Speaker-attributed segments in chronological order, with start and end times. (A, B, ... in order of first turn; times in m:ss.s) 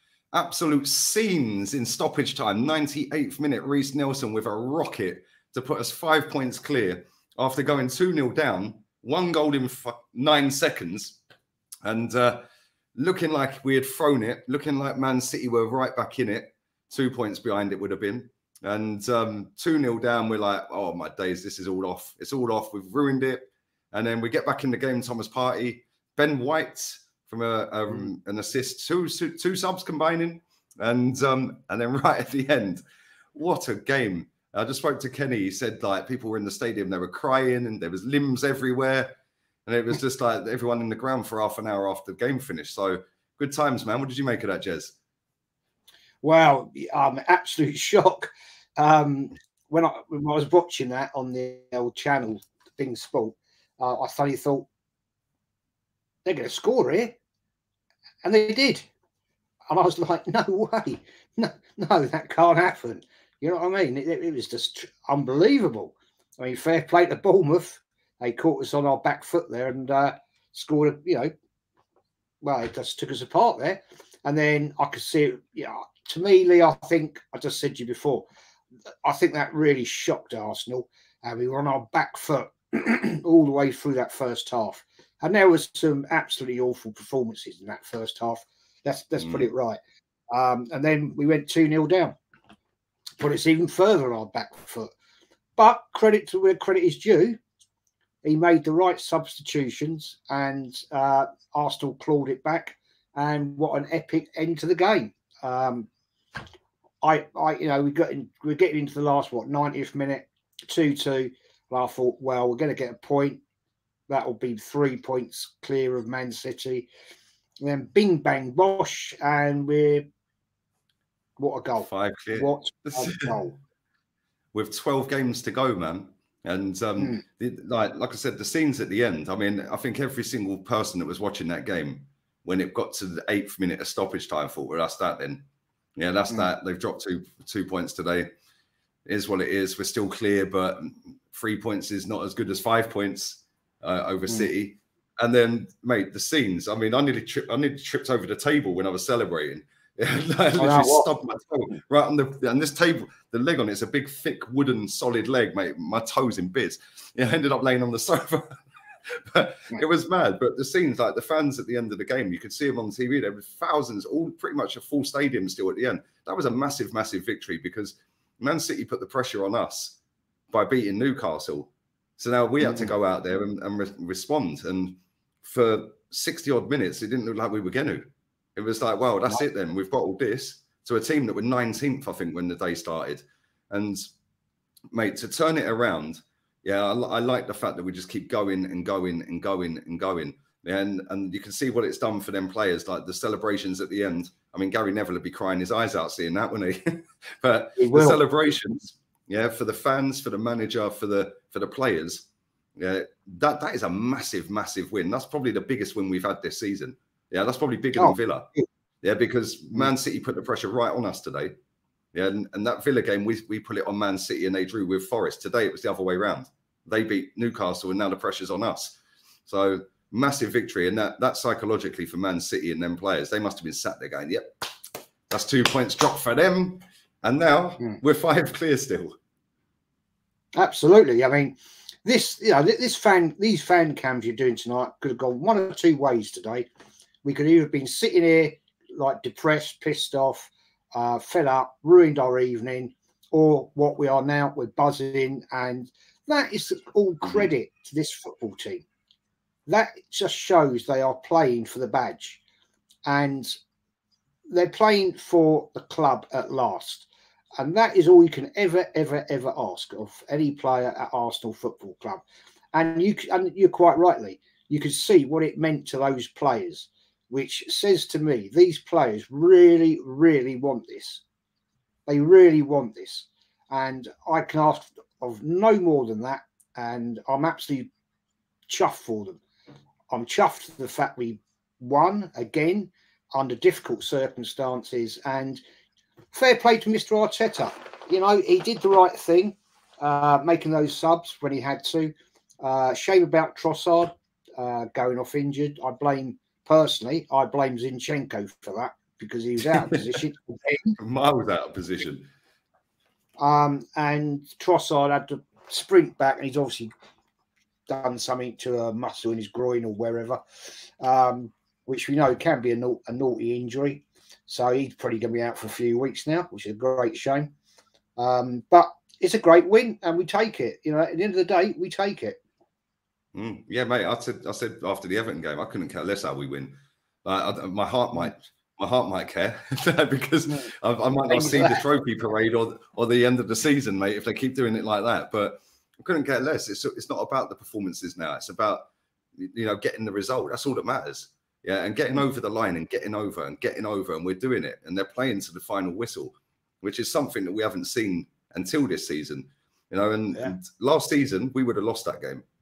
0:00.3-0:11.2 A
0:11.8-0:12.4 A
0:13.0-0:32.8 A
0:33.4-0:39.1 A
0:39.7-0:45.0 A
0:46.2-0:54.7 B
0:56.2-0:57.2 B
0:58.2-0:58.9 B
0:59.7-1:11.3 B
1:12.4-1:18.3 B
1:19.0-1:29.8 B
1:30.3-1:32.2 B
1:33.2-1:34.9 B
1:35.6-1:37.4 B
1:38.2-1:45.9 B
1:47.0-1:53.4 B
1:54.1-1:56.9 B
1:57.6-2:00.1 B
2:01.4-2:03.6 B
2:01.8-2:03.4 A
2:04.5-2:15.4 A
2:16.0-2:18.3 A
2:19.1-2:38.6 A
2:30.6-2:31.1 B
2:39.3-2:50.0 A
2:50.5-2:58.0 A
2:52.6-2:52.9 B
2:58.6-3:04.1 A
3:04.9-3:22.3 A
3:17.8-3:18.2 B
3:22.8-3:28.5 A
3:28.0-3:28.6 B
3:29.0-3:31.5 A
3:32.1-3:39.0 A
3:39.5-3:44.5 A
3:45.3-3:49.2 A
3:50.6-3:56.7 B
3:57.2-4:08.8 B
4:09.7-4:12.4 B
4:13.1-4:13.5 B
4:14.5-4:22.2 B
4:22.7-4:31.2 B
4:32.1-4:37.9 B
4:38.7-4:39.4 B
4:40.1-4:45.6 B
4:46.3-5:01.0 B
5:01.0-5:02.3 A
5:03.4-5:06.9 B
5:07.9-5:10.4 B
5:11.0-5:17.5 B
5:18.2-5:22.4 B
5:23.3-5:52.4 A
5:31.3-5:31.8 B